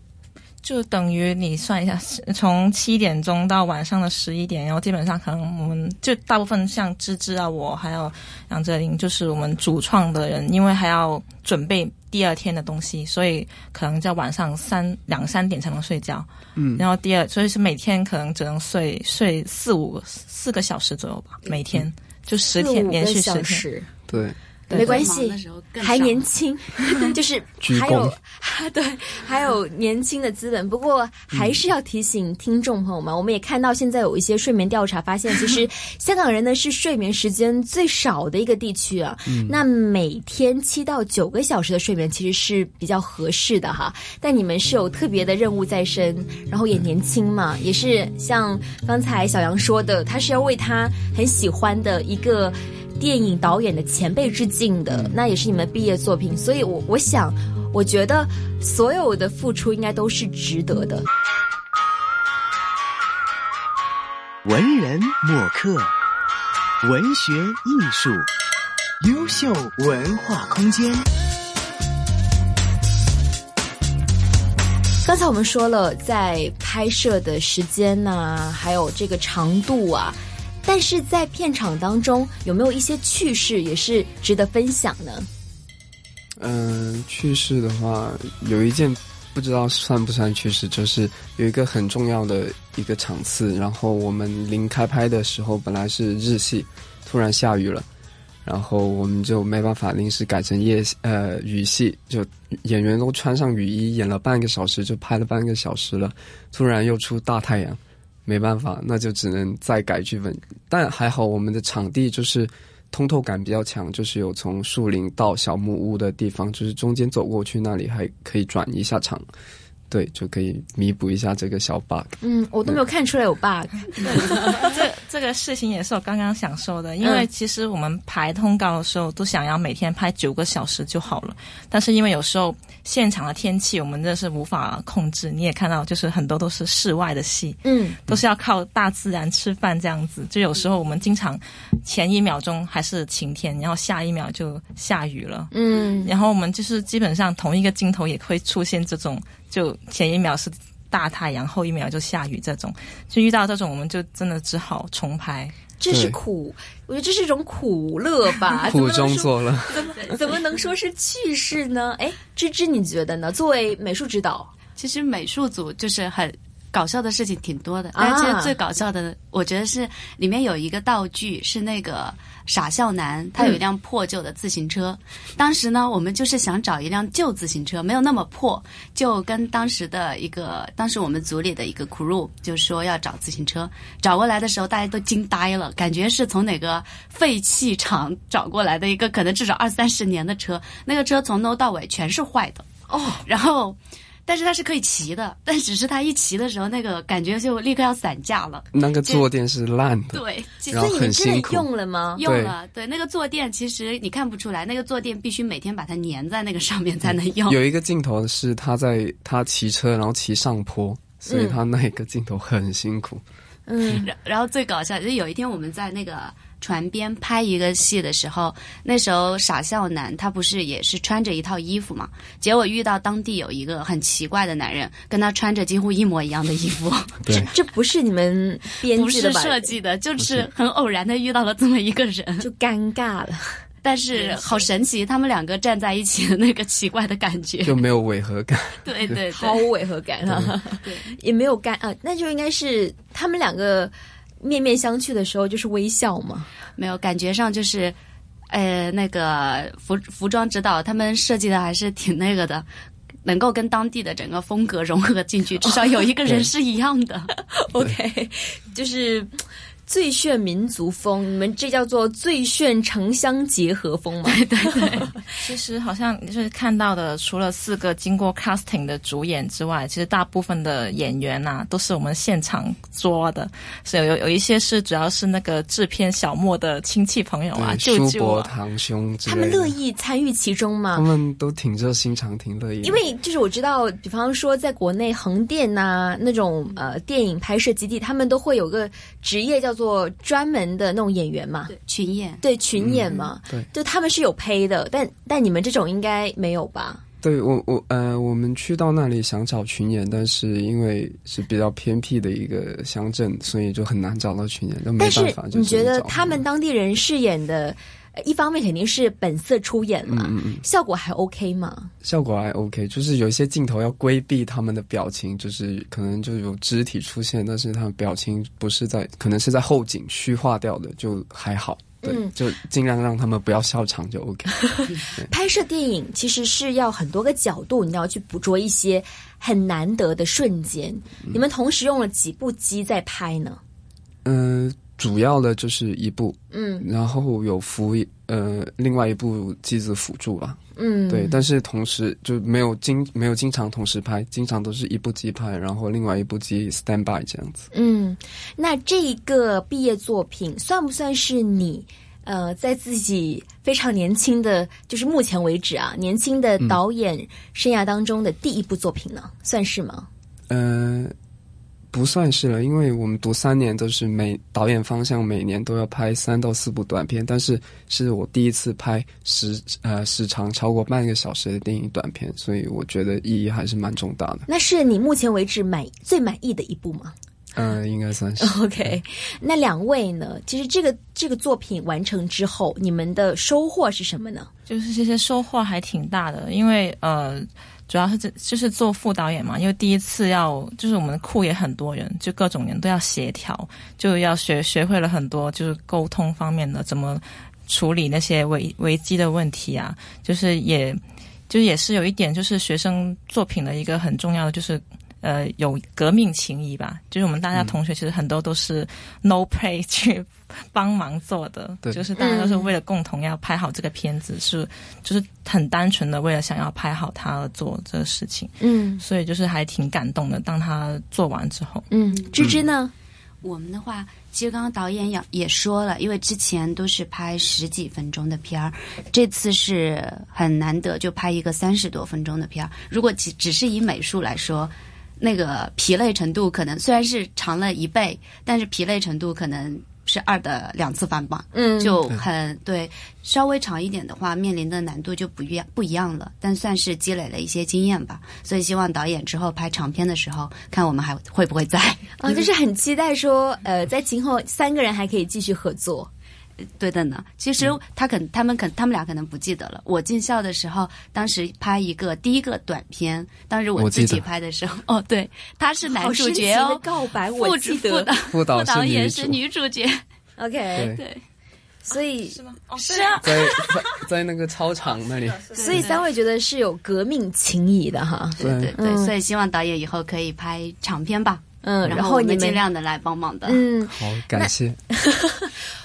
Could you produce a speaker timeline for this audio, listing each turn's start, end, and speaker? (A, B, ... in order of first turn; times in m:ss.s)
0:00.6-0:23.7 A
0:16.6-0:16.9 B
0:22.4-0:23.9 C
0:24.1-0:24.4 B
0:24.7-1:01.1 C
0:24.7-0:26.3 D
0:27.6-0:28.2 B
0:31.3-0:31.6 B
0:39.3-0:39.6 B
0:54.9-0:55.2 B
1:04.5-1:05.9 E
1:06.8-1:08.3 E
1:09.0-1:11.0 E
1:15.0-1:25.3 C
1:26.4-1:37.9 B
1:38.4-1:59.2 B
1:59.9-2:02.8 B
2:02.2-2:04.7 C
2:04.1-2:35.6 A
2:07.0-2:07.3 C
2:17.6-2:18.0 C
2:25.5-2:26.1 C
2:35.8-2:44.5 C
2:35.9-2:36.2 B
2:38.6-2:39.9 B
2:44.8-3:12.7 D
2:47.9-2:48.5 C
3:12.9-3:13.2 C
3:13.2-3:19.3 D
3:18.7-3:21.7 B
3:20.1-3:20.9 D
3:20.7-3:22.2 C
3:22.2-3:27.6 D
3:22.2-3:22.6 B
3:27.1-3:33.2 B
3:31.3-3:31.6 C
3:33.7-3:34.1 C
3:33.9-3:47.2 D
3:47.3-3:49.8 C
3:48.8-3:52.5 D
3:50.2-3:50.5 B
3:52.4-3:53.6 C
3:53.8-3:57.8 D
3:54.1-3:54.6 C
3:57.6-3:59.2 B
3:58.8-3:59.7 D
3:59.3-4:06.5 C
4:00.3-4:00.6 B
4:00.8-4:01.1 D
4:06.8-4:08.0 D
4:08.5-4:12.7 D
4:13.2-4:17.3 D
4:17.5-4:19.3 C
4:19.9-4:25.2 C
4:24.2-4:25.1 D
4:25.4-4:38.5 A
4:37.6-4:39.8 B
4:39.3-4:41.1 C
4:40.9-4:43.0 B
4:42.8-4:51.8 C
4:51.7-4:52.4 D
4:52.4-4:57.0 C
4:52.8-4:53.7 B
4:57.2-5:06.4 B
5:05.0-5:11.9 C
5:10.1-5:10.6 B
5:12.0-5:25.3 B
5:22.0-5:22.3 C
5:24.7-5:33.6 C
5:34.2-5:47.7 B
5:36.5-5:36.9 C
5:40.8-5:41.4 C
5:47.7-6:00.1 C
6:00.5-6:01.1 B
6:01.9-6:14.5 B
6:14.5-6:17.1 C
6:17.6-6:19.0 B
6:18.4-6:24.5 C
6:24.7-7:01.9 A
6:52.2-6:52.7 C
6:58.6-6:59.0 C
7:01.9-7:02.9 C
7:02.1-7:02.5 D
7:03.4-7:32.4 D
7:21.5-7:22.0 C
7:32.2-7:36.1 C
7:36.8-7:46.8 D
7:43.8-7:44.2 B
7:45.8-7:48.1 C
7:47.4-7:50.0 D
7:48.3-7:49.4 B
7:50.4-7:51.0 C
7:50.8-7:51.0 B
7:50.9-7:51.2 D
7:51.9-7:52.4 C
7:51.9-7:53.2 A
7:52.8-7:53.7 D
7:53.2-7:55.4 B
7:55.3-7:56.0 A
7:55.5-7:55.9 D
7:55.5-7:59.1 C
7:58.4-8:03.7 D
7:58.4-7:58.8 B
8:01.6-8:02.6 C
8:03.4-8:05.6 C
8:03.8-8:04.8 B